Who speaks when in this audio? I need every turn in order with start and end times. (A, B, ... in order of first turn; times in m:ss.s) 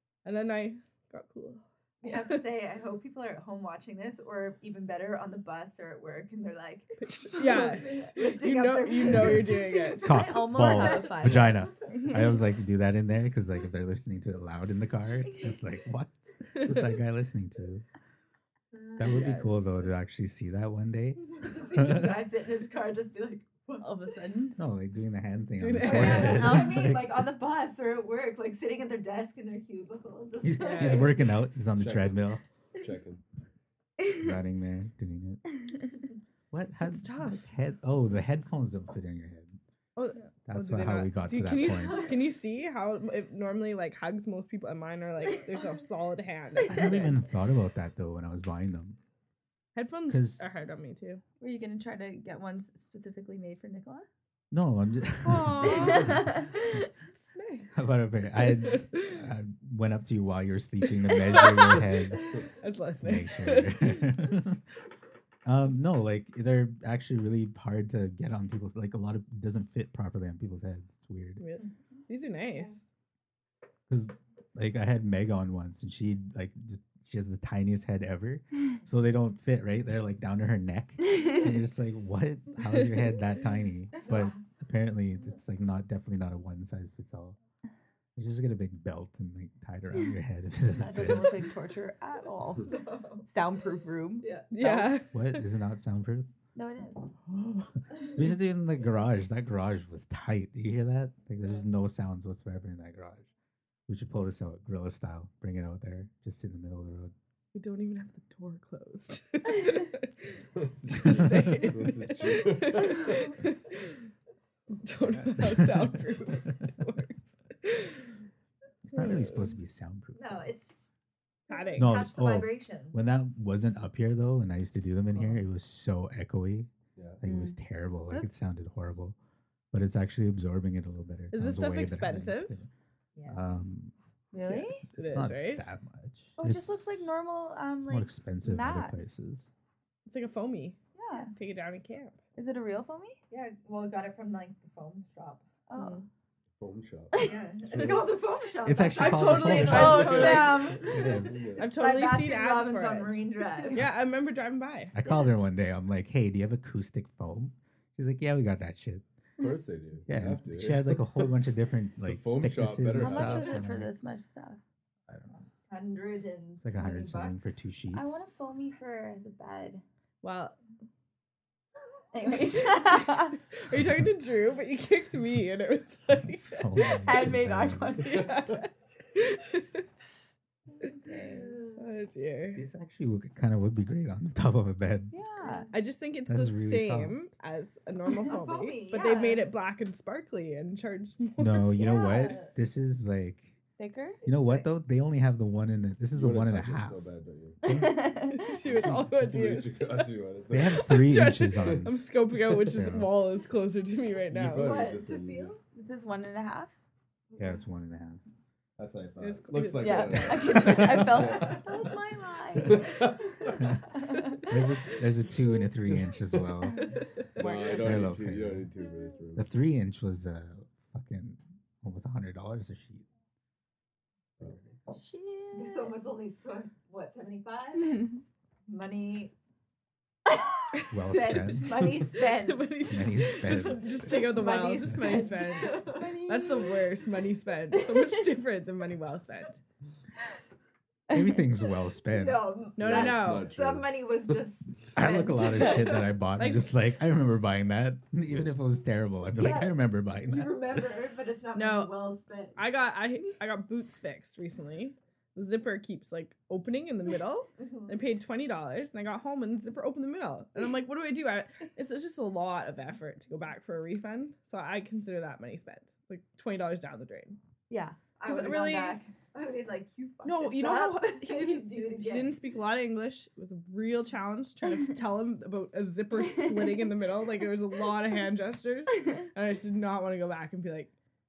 0:00.2-0:02.4 A
0:02.0-0:12.2 B
0:07.0-0:10.5 A
0:07.5-0:07.9 C
0:09.0-0:17.8 D
0:09.7-0:12.4 C
0:16.5-0:17.0 A
0:18.7-0:19.6 B
0:19.0-0:22.2 D
0:19.0-0:19.6 A
0:21.3-0:23.9 B
0:23.8-0:24.6 C
0:24.6-0:27.3 D
0:25.6-0:26.8 A
0:25.8-0:31.3 B
0:25.9-0:26.7 C
0:30.4-0:32.4 D
0:30.6-0:31.1 A
0:31.7-0:32.2 E
0:32.7-0:33.2 E
0:34.0-0:35.4 D
0:36.5-0:39.6 D
0:36.8-0:37.5 A
0:40.0-0:47.2 A
0:40.4-0:42.1 D
0:41.7-0:42.1 B
0:46.7-0:49.0 D
0:49.7-0:51.2 A
0:50.1-0:50.4 D
0:51.4-0:54.1 C
0:54.5-0:56.4 D
0:55.2-0:56.3 A
0:55.9-0:56.4 C
0:57.1-0:57.7 A
0:57.7-1:02.4 D
0:58.4-0:59.2 A
1:01.0-1:04.2 A
1:03.0-1:04.6 D
1:05.4-1:11.4 D
1:11.4-1:12.8 A
1:13.9-1:27.4 D
1:22.6-1:23.0 A
1:24.0-1:24.4 B
1:28.2-1:31.5 D
1:30.7-1:35.0 C
1:32.7-1:33.2 B
1:34.2-1:34.5 B
1:34.5-1:35.4 A
1:35.1-1:36.3 D
1:36.5-1:37.1 C
1:37.3-1:43.3 D
1:43.9-1:47.1 D
1:47.5-1:50.3 A
1:50.5-1:53.2 E
1:50.9-1:51.6 D
1:51.0-1:53.9 A
1:54.8-1:58.0 A
1:55.4-1:56.0 D
1:58.8-2:00.4 D
1:58.9-1:59.6 A
2:00.1-2:00.9 B
2:01.5-2:02.0 A
2:01.5-2:03.0 B
2:01.8-2:09.2 D
2:07.0-2:07.2 E
2:07.2-2:07.6 C
2:08.1-2:08.4 A
2:09.7-2:12.7 D
2:11.3-2:12.5 A
2:13.2-2:13.6 B
2:13.3-2:13.9 D
2:14.3-2:14.8 C
2:14.4-2:15.6 A
2:15.0-2:17.0 D
2:16.4-2:19.1 C
2:17.8-2:19.5 D
2:20.1-2:20.8 A
2:20.9-2:21.3 C
2:21.3-2:22.2 A
2:22.4-2:23.2 C
2:23.3-2:25.5 B
2:25.7-2:26.0 C
2:25.7-2:26.0 A
2:26.6-2:28.1 E
2:27.2-2:33.9 B
2:28.6-2:31.5 D
2:28.9-2:30.8 A
2:29.5-2:31.7 E
2:29.6-2:30.9 C
2:31.6-2:34.9 A
2:34.9-2:39.0 D
2:39.4-2:41.3 E
2:40.1-2:43.9 D
2:42.0-2:43.6 E
2:42.9-2:44.6 C
2:45.1-2:45.4 D
2:45.7-2:47.6 B
2:46.6-2:48.2 D
2:47.9-2:49.8 C
2:50.2-2:50.6 A
2:52.1-2:53.4 C
2:52.7-2:57.3 A
2:53.7-2:54.1 D
2:56.4-2:58.1 D
2:57.0-2:58.5 C
2:58.1-2:59.8 A
3:00.8-3:01.6 C
3:01.3-3:01.8 B
3:01.8-3:02.6 A
3:02.5-3:05.1 D
3:05.1-3:05.7 C
3:05.4-3:05.7 B
3:05.7-3:11.8 A
3:06.3-3:07.2 D
3:08.2-3:09.4 B
3:11.4-3:13.5 D
3:11.8-3:12.4 C
3:11.8-3:12.5 B
3:13.8-3:14.6 C
3:14.2-3:17.0 D
3:16.1-3:17.6 E
3:17.6-3:18.6 C
3:17.6-3:18.2 D
3:18.3-3:20.1 A
3:19.1-3:21.0 E
3:20.5-3:21.9 D
3:20.6-3:24.7 A
3:22.6-3:23.1 D
3:24.3-3:25.5 E
3:24.5-3:25.6 B
3:25.7-3:26.7 C
3:27.4-3:28.2 D
3:28.8-3:31.9 E
3:29.2-3:31.1 A
3:29.8-3:33.0 C
3:32.6-3:33.7 E
3:33.6-3:33.9 D
3:33.9-3:34.4 C
3:34.4-3:36.9 D
3:35.9-3:36.6 E
3:37.4-3:39.5 E
3:37.4-3:38.1 C
3:37.4-3:38.7 D
3:39.4-3:43.1 D
3:44.4-3:44.8 D
3:44.9-3:46.0 C
3:45.5-3:48.1 B
3:47.8-3:48.2 C
3:48.7-3:49.3 B
3:50.8-3:52.8 B
3:50.9-3:52.1 D
3:51.9-3:59.6 A
3:52.8-3:54.2 D
3:53.4-3:56.8 B
3:54.8-3:55.2 D
3:55.9-3:56.6 C
4:01.1-4:02.6 D
4:02.0-4:06.0 B
4:02.8-4:03.5 A
4:02.8-4:03.9 E
4:04.9-4:10.8 D
4:05.4-4:06.7 A
4:09.4-4:12.6 B
4:11.5-4:12.0 A
4:12.6-4:27.4 A
4:17.6-4:18.0 B
4:27.7-4:28.0 C
4:28.2-4:32.4 B
4:28.2-4:29.0 A
4:30.2-4:40.9 A